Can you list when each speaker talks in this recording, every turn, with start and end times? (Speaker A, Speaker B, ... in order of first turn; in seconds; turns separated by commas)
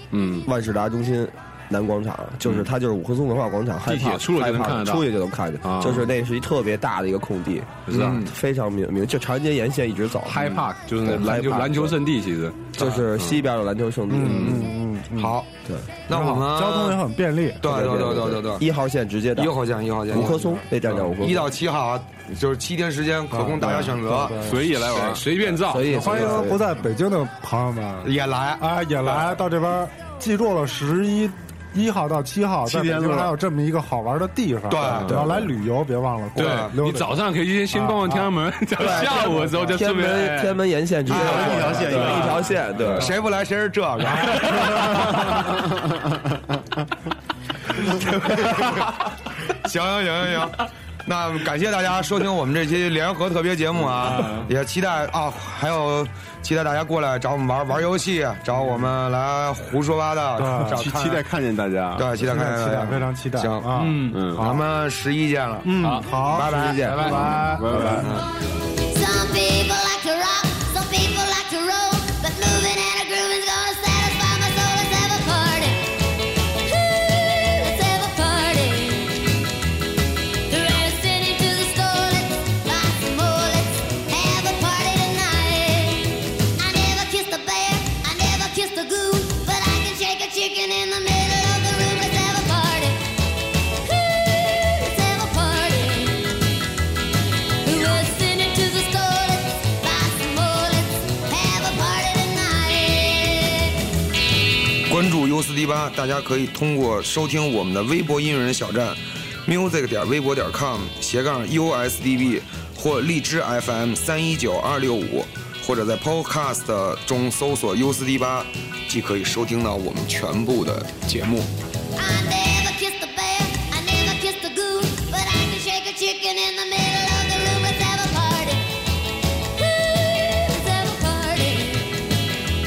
Speaker A: 0.1-0.5, Speaker B: 0.4-12.0, Speaker A: 3.9-5.1, Speaker A: 5.6-6.1, Speaker A: 7.9-8.2, Speaker C: 7.9-8.3, Speaker A: 10.2-13.4, Speaker C: 12.8-13.1, Speaker B: 12.8-14.7, Speaker D: 14.1-15.3, Speaker C: 14.4-15.5, Speaker C: 16.1-17.0, Speaker D: 16.1-17.7, Speaker C: 17.6-18.6, Speaker B: 17.6-19.5, Speaker C: 19.4-20.5, Speaker B: 20.1-21.5, Speaker C: 21.1-25.2, Speaker D: 23.3-24.6, Speaker E: 24.4-25.2, Speaker A: 24.9-26.0, Speaker B: 25.6-26.6, Speaker D: 25.9-37.1, Speaker C: 28.0-29.4, Speaker E: 32.6-33.3, Speaker C: 34.7-35.4, Speaker B: 35.0-35.5, Speaker C: 36.4-36.7, Speaker A: 36.4-40.6, Speaker D: 37.7-38.3, Speaker B: 38.8-43.1, Speaker D: 41.1-42.5, Speaker C: 41.1-42.2, Speaker A: 41.1-42.4, Speaker C: 42.9-45.4, Speaker D: 44.1-45.2, Speaker A: 44.7-45.5, Speaker C: 47.8-61.2, Speaker A: 54.0-54.4, Speaker D: 60.4-60.9, Speaker E: 60.7-62.2, Speaker C: 62.0-65.7, Speaker D: 62.2-64.6, Speaker A: 63.8-64.2, Speaker E: 64.1-64.5, Speaker D: 65.6-68.1, Speaker A: 65.8-66.1, Speaker C: 66.2-67.4, Speaker B: 66.4-67.3, Speaker A: 66.8-67.1, Speaker E: 67.4-68.2, Speaker C: 68.0-68.3, Speaker F: 68.9-79.3, Speaker F: 80.5-93.0, Speaker F: 93.7-96.4, Speaker F: 97.6-103.8, Speaker C: 104.9-121.5, Speaker F: 122.0-128.6, Speaker F: 129.4-132.0